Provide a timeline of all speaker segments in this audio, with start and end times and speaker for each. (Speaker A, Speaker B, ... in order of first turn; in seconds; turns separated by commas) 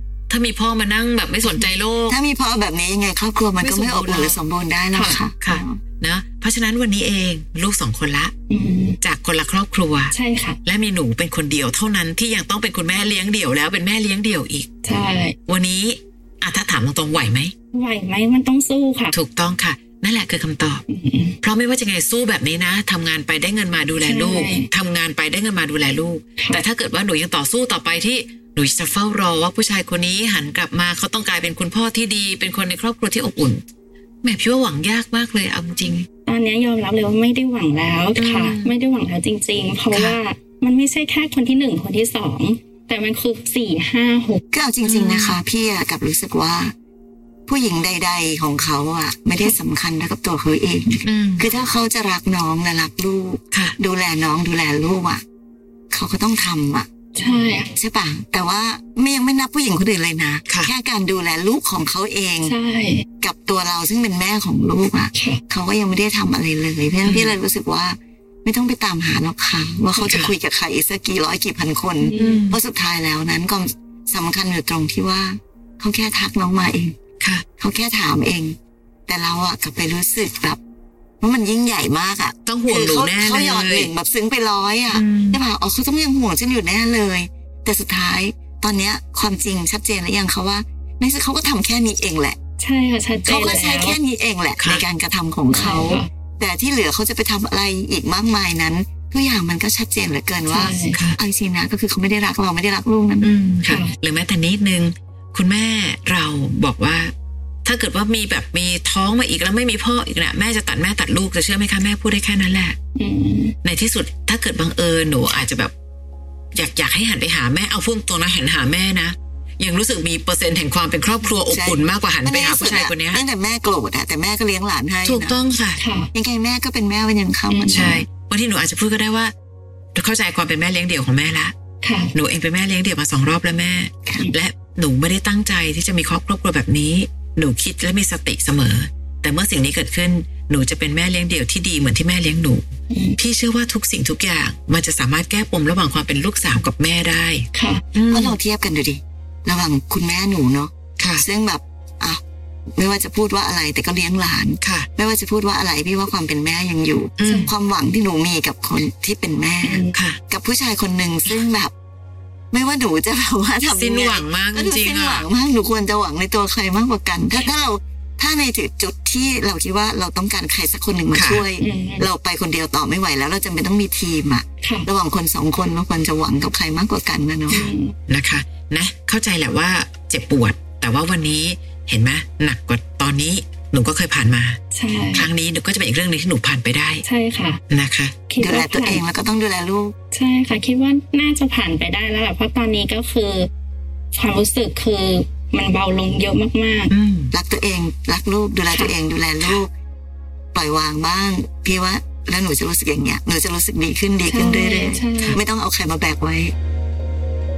Speaker A: 0.3-2.2, Speaker B: 2.1-5.8, Speaker A: 3.6-4.4, Speaker C: 4.9-5.2, Speaker A: 5.4-8.3, Speaker C: 8.5-9.0, Speaker A: 9.0-10.1, Speaker C: 10.1-10.6, Speaker A: 10.6-14.7, Speaker C: 14.8-15.4, Speaker A: 15.5-17.5, Speaker C: 17.7-19.1, Speaker A: 19.1-20.8, Speaker C: 20.9-21.4, Speaker A: 21.4-33.6, Speaker C: 24.0-24.7, Speaker A: 34.2-36.1, Speaker C: 36.2-44.4, Speaker A: 38.2-38.7, Speaker A: 39.9-40.2, Speaker B: 44.5-46.7, Speaker A: 44.8-45.4, Speaker B: 47.5-55.2, Speaker A: 51.0-51.5, Speaker B: 55.9-56.9, Speaker C: 57.2-57.7, Speaker B: 57.7-62.5, Speaker C: 62.4-63.0, Speaker B: 63.2-77.0, Speaker C: 65.1-65.4, Speaker A: 67.0-67.4, Speaker C: 69.9-70.2, Speaker C: 72.0-72.5, Speaker A: 72.1-72.6, Speaker B: 77.6-78.5, Speaker B: 79.1-80.6, Speaker B: 81.2-92.4, Speaker A: 82.5-83.9, Speaker A: 84.9-85.4, Speaker C: 92.6-94.0, Speaker B: 93.2-103.3, Speaker A: 94.6-94.8, Speaker C: 95.5-96.1, Speaker C: 100.5-101.0, Speaker A: 100.9-101.2, Speaker A: 103.2-107.1, Speaker C: 103.7-103.9, Speaker A: 107.6-112.8, Speaker C: 112.9-113.5, Speaker A: 113.6-115.7, Speaker A: 116.5-123.2, Speaker B: 121.5-125.4, Speaker A: 125.0-125.8, Speaker C: 125.8-126.1, Speaker B: 126.1-128.1, Speaker C: 127.5-128.0, Speaker A: 127.7-129.3, Speaker A: 129.9-131.5, Speaker C: 131.8-132.1, Speaker A: 132.1-142.7, Speaker C: 142.9-143.2, Speaker A: 143.2-148.3, Speaker C: 147.5-147.8, Speaker B: 148.1-152.2, Speaker A: 151.0-151.2, Speaker B: 152.8-161.7, Speaker A: 154.6-154.9, Speaker A: 157.2-157.5, Speaker C: 157.2-157.5, Speaker C: 159.6-160.0, Speaker A: 159.9-160.2, Speaker B: 162.5-177.7, Speaker A: 163.7-165.2, Speaker A: 171.1-171.4, Speaker C: 171.6-172.1, Speaker C: 174.6-174.9, Speaker C: 177.5-177.9, Speaker A: 178.1-184.6, Speaker C: 184.7-185.3, Speaker A: 185.1-187.0, Speaker C: 187.0-187.6, Speaker A: 187.7-188.1, Speaker C: 188.3-189.0, Speaker B: 188.4-189.9, Speaker C: 190.1-193.5, Speaker C: 194.1-196.9, Speaker A: 196.9-197.3, Speaker B: 197.3-199.7, Speaker C: 198.7-198.9, Speaker B: 200.5-206.5, Speaker C: 204.3-205.4